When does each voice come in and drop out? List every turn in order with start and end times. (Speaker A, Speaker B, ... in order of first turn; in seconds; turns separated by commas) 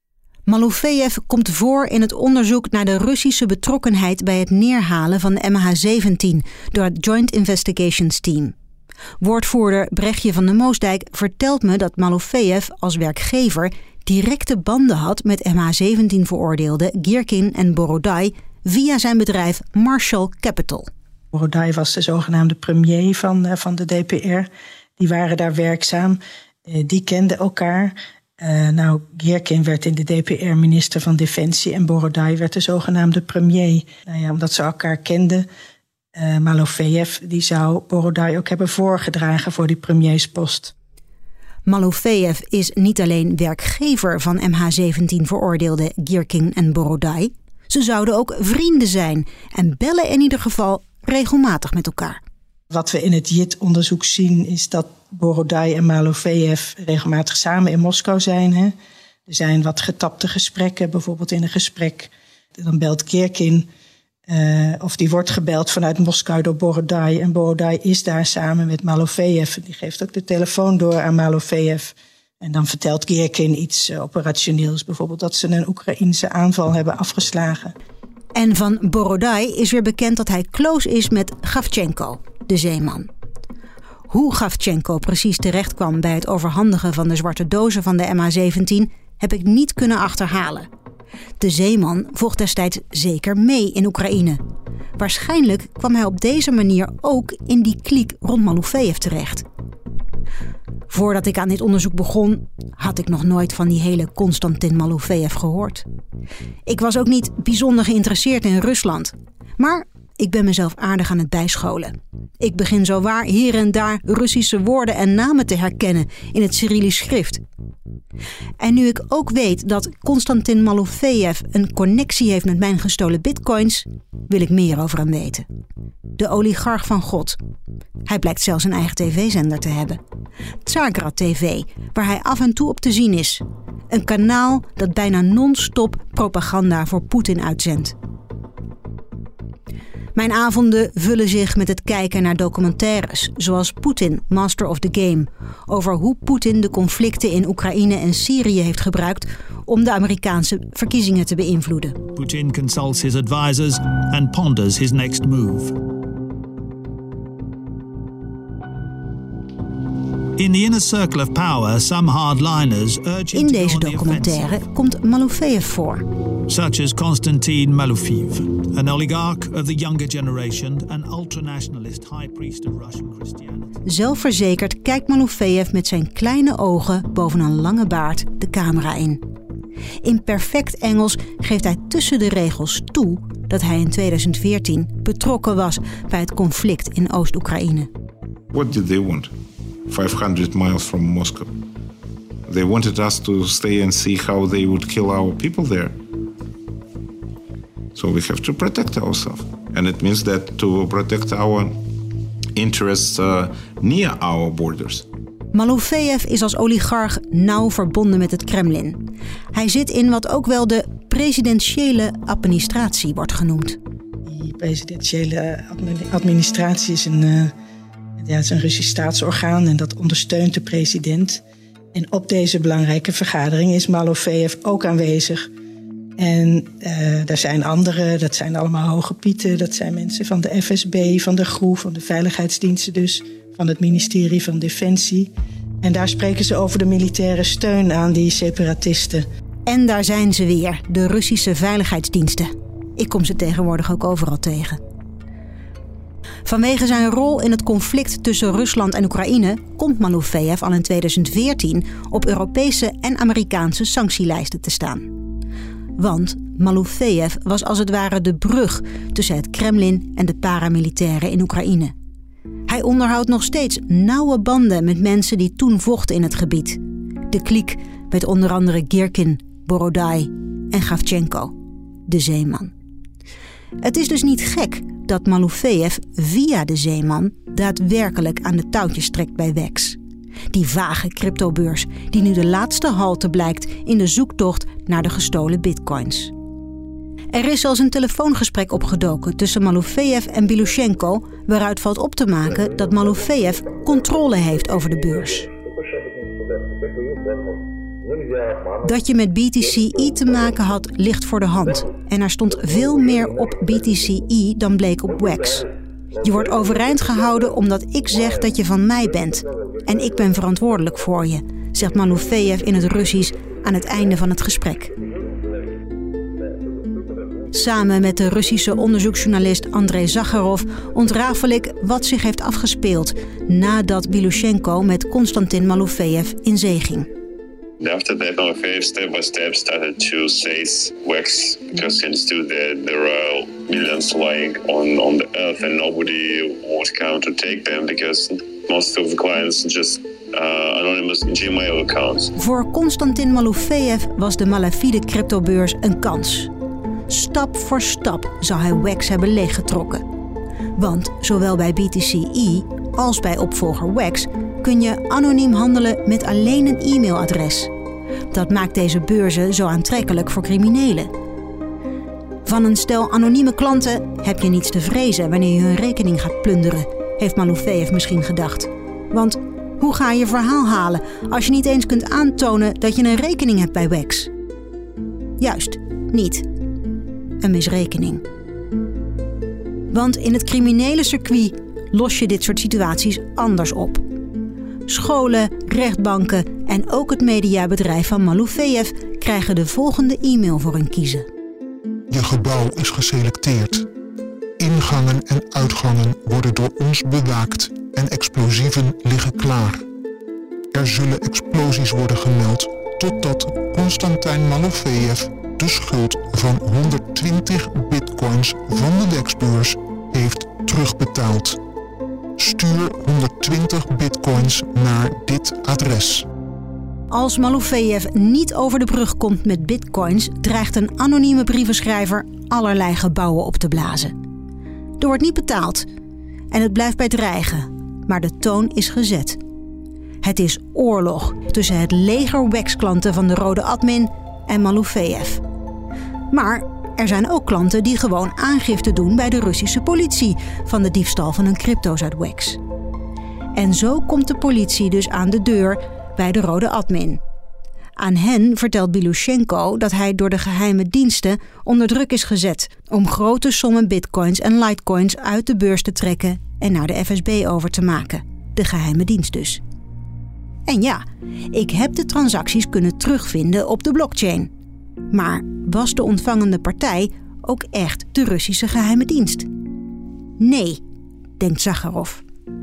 Speaker A: 0.5-8.5, Speaker A: 9.2-20.9, Speaker B: 21.3-35.5, Speaker B: 36.1-40.7, Speaker A: 41.7-52.2, Speaker B: 52.7-58.7, Speaker B: 59.3-63.6, Speaker B: 64.3-77.7, Speaker A: 78.3-83.1, Speaker A: 84.1-90.7, Speaker A: 91.4-94.4, Speaker A: 95.0-99.4, Speaker A: 100.9-105.8, Speaker A: 106.7-117.4, Speaker A: 118.6-125.5, Speaker A: 126.2-127.4, Speaker A: 128.1-130.0, Speaker A: 130.6-137.9, Speaker A: 140.1-152.0, Speaker C: 152.1-155.8, Speaker C: 160.4-164.5, Speaker A: 163.3-166.1, Speaker C: 166.5-173.8, Speaker A: 173.8-179.2, Speaker A: 180.0-187.9, Speaker D: 188.5-189.3, Speaker D: 189.9-191.6, Speaker D: 192.5-196.0, Speaker D: 197.9-201.9, Speaker D: 202.5-205.1, Speaker A: 205.5-213.8, Speaker B: 214.2-217.5, Speaker B: 218.2-221.4, Speaker B: 221.9-225.5, Speaker B: 226.2-235.3, Speaker B: 235.8-239.2, Speaker A: 239.7-244.8, Speaker A: 246.4-255.1, Speaker A: 256.0-261.9, Speaker A: 262.7-271.5, Speaker A: 272.1-272.7, Speaker A: 273.8-280.0, Speaker A: 280.5-286.3, Speaker A: 287.3-295.5, Speaker A: 298.8-305.7, Speaker A: 306.2-314.9, Speaker A: 317.5-327.1, Speaker E: 327.8-342.3, Speaker A: 342.4-346.5, Speaker A: 347.1-350.0, Speaker A: 350.8-357.7, Speaker A: 358.3-361.1, Speaker A: 362.4-374.3, Speaker A: 375.4-376.5, Speaker A: 377.4-378.2, Speaker A: 379.9-384.0, Speaker A: 384.9-391.3, Speaker F: 392.1-393.9, Speaker F: 394.6-399.8, Speaker F: 400.7-411.6, Speaker F: 412.4-416.2, Speaker A: 417.1-424.1, Speaker A: 425.0-425.9, Speaker A: 426.5-429.4, Speaker A: 430.2-435.4, Speaker A: 436.3-442.6, Speaker A: 443.5-447.2, Speaker A: 448.0-459.6, Speaker A: 460.7-464.5, Speaker A: 465.1-469.5, Speaker A: 470.4-470.8, Speaker A: 471.4-472.2